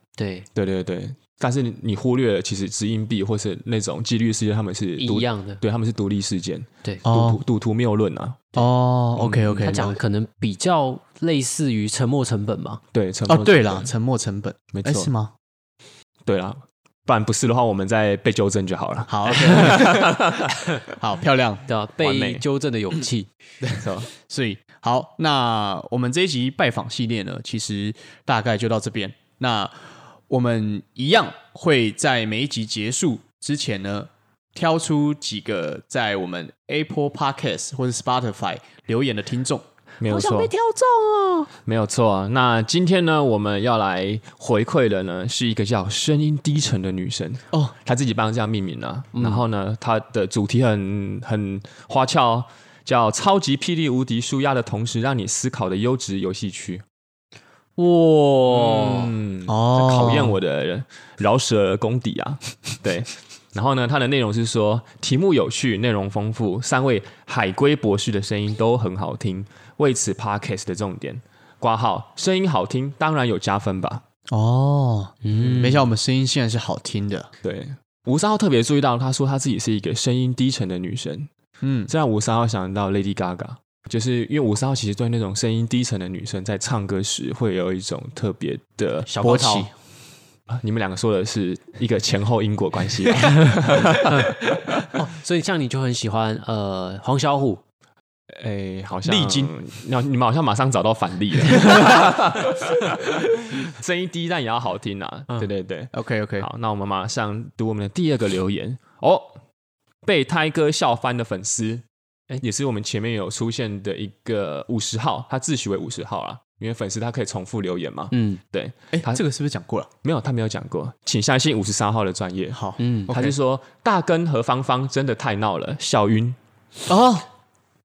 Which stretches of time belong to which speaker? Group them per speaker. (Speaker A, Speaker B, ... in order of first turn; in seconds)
Speaker A: 0.2-0.5, 5.0-5.6, 9.6-12.8, 21.7-23.3, 40.0-41.5, 49.1-49.4, 57.8-59.2, 75.2-75.9, 89.1-89.7, 93.2-97.6, 118.1-118.4, 122.8-123.1
Speaker B: 0.6-8.6, 12.9-13.8, 14.7-15.1, 16.3-20.6, 22.0-22.4, 23.8-24.1, 40.0-40.5, 41.6-56.8, 58.5-74.0, 77.4-81.3, 81.9-89.1, 90.5-94.6, 98.3-109.4, 110.0-111.8, 112.4-119.2, 120.0-126.4
Speaker C: 7.0-7.4, 8.6-10.0, 13.3-15.3, 19.1-20.3, 20.9-21.6, 24.2-39.6, 59.5-60.4, 74.3-77.3, 81.6-81.9, 89.2-89.7, 99.0-99.5, 105.9-106.5, 118.9-119.9, 122.5-123.3, 126.9-127.3